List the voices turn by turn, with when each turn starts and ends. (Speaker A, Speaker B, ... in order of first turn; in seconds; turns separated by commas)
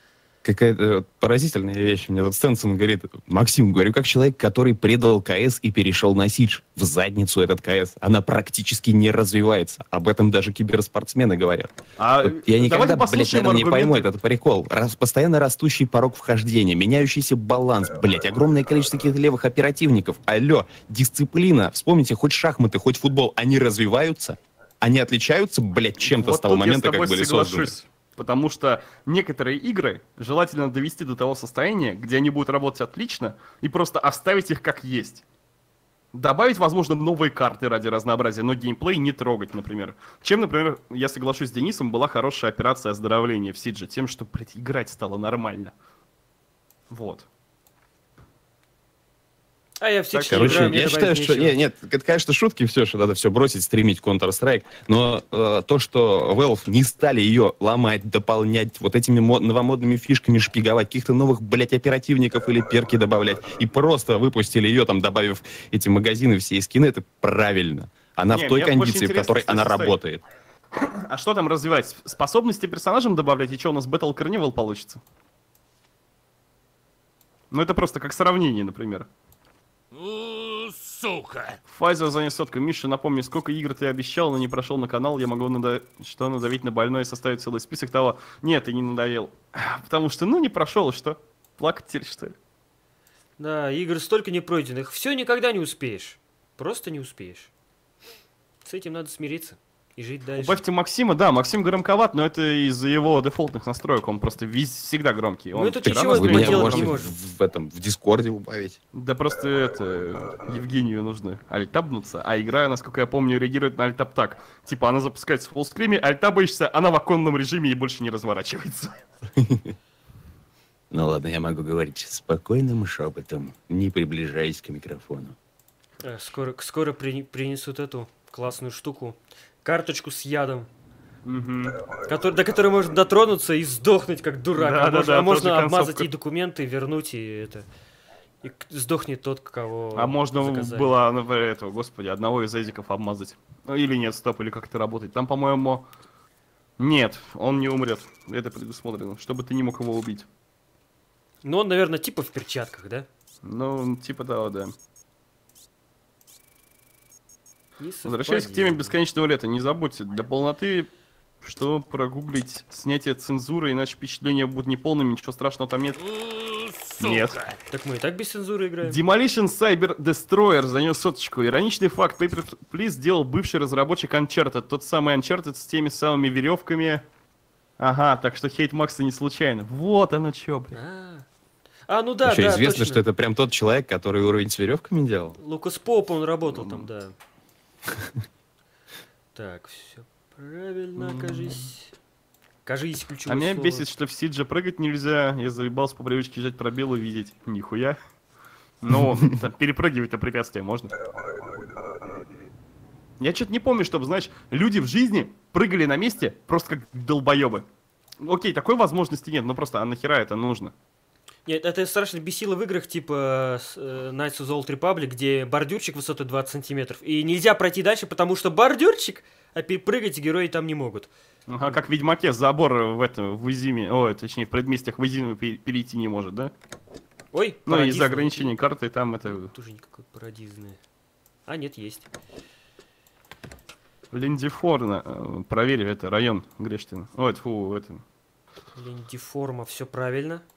Speaker A: 0.4-27.7, Speaker B: 12.0-14.1, Speaker B: 26.0-35.2, Speaker B: 36.1-45.7, Speaker B: 46.9-47.3, Speaker C: 49.8-51.6, Speaker B: 50.1-50.9, Speaker A: 50.3-70.2, Speaker B: 68.3-70.0, Speaker B: 70.8-75.0, Speaker B: 77.5-79.1, Speaker B: 81.7-92.4, Speaker C: 93.4-97.5, Speaker C: 98.7-100.6, Speaker B: 100.4-107.0, Speaker C: 105.5-107.1, Speaker A: 105.8-108.8, Speaker B: 108.9-119.0, Speaker A: 119.4-119.7, Speaker A: 120.9-125.4, Speaker C: 126.0-130.7, Speaker B: 131.2-131.8, Speaker C: 132.0-137.7, Speaker B: 134.6-136.1, Speaker C: 138.4-140.9, Speaker B: 139.9-145.9, Speaker B: 146.8-150.3, Speaker C: 151.4-153.1, Speaker B: 153.4-154.8, Speaker C: 157.8-159.0, Speaker B: 158.0-160.9, Speaker B: 161.4-167.6, Speaker C: 167.6-169.0, Speaker B: 168.8-177.1, Speaker B: 177.8-180.8, Speaker C: 180.7-181.3, Speaker C: 181.9-183.0, Speaker A: 182.2-185.4, Speaker C: 185.4-187.1, Speaker B: 186.5-186.9, Speaker C: 189.3-191.9, Speaker B: 191.0-191.7, Speaker C: 192.7-193.9, Speaker B: 193.3-198.0, Speaker B: 198.8-200.9, Speaker B: 203.2-207.7, Speaker B: 208.2-210.7, Speaker C: 211.5-221.1, Speaker B: 221.5-226.5, Speaker C: 227.3-228.6, Speaker B: 227.7-229.5, Speaker C: 229.5-230.8, Speaker C: 231.5-232.1, Speaker B: 234.1-238.0, Speaker C: 238.8-240.4